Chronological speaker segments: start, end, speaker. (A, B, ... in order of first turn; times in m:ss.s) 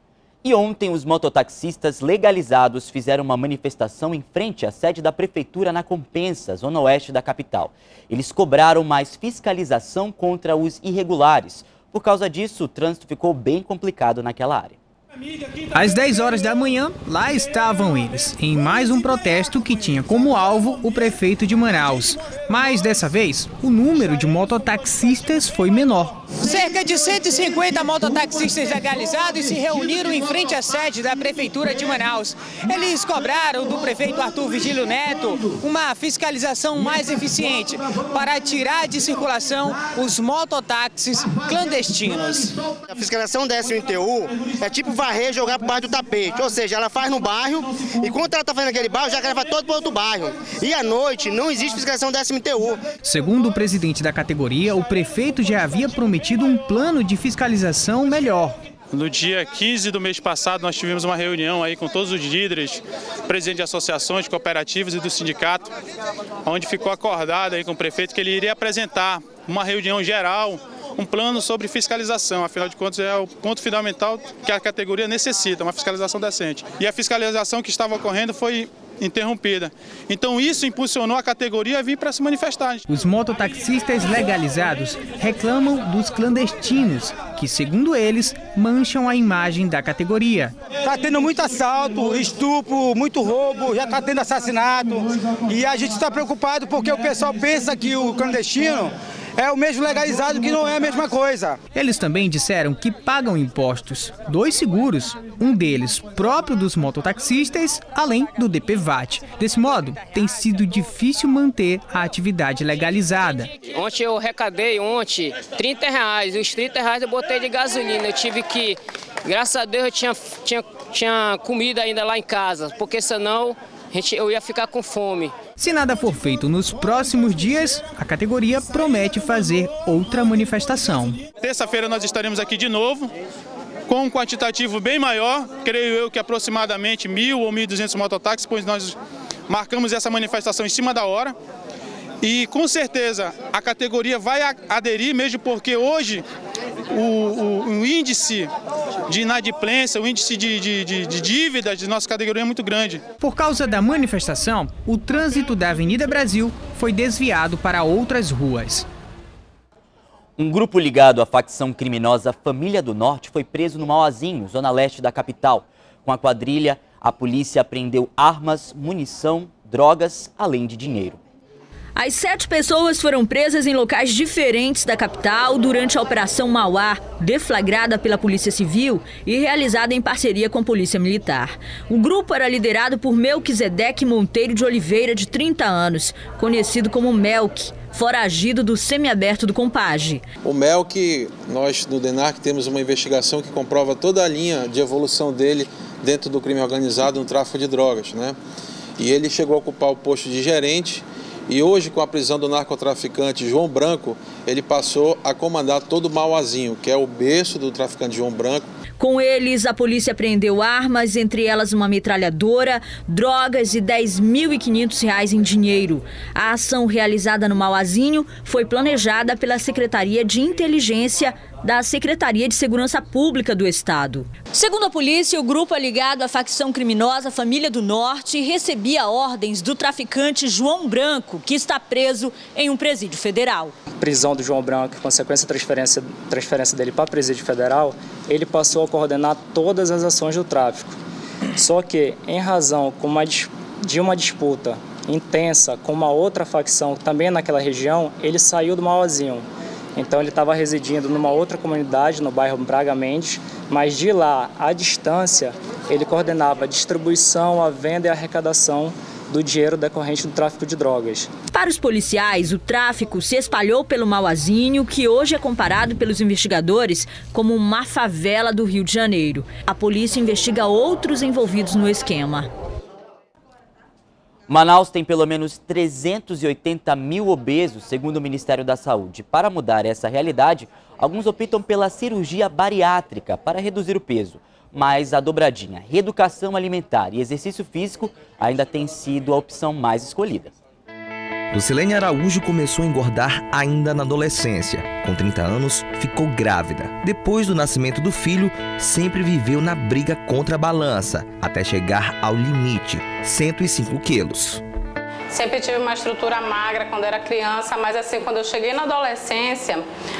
0:00.4-0:14.8 A
0:15.7-0:26.3 B
0:26.3-0:42.6 C
0:42.9-0:52.8 D
0:53.0-0:58.6 B
0:58.9-1:05.7 E
1:06.4-1:22.8 E
1:22.9-1:30.5 B
1:30.8-1:41.6 F
1:41.7-1:53.5 B
1:53.6-2:05.3 G
2:05.6-2:11.2 B
2:11.4-2:13.1 E
2:13.9-2:19.0 E
2:19.5-2:21.3 E
2:22.2-2:26.2 E
2:26.9-2:28.5 E
2:29.1-2:33.0 E
2:33.2-2:38.8 B
2:40.4-2:51.2 A
2:52.0-3:10.2 H
3:10.4-3:18.4 I
3:19.0-3:28.6 I
3:29.0-3:53.7 H
3:54.0-4:01.0 J
4:01.6-4:21.3 J
4:21.5-4:32.5 H
4:34.5-4:50.5 A
4:51.5-5:04.6 K
5:05.3-5:09.9 L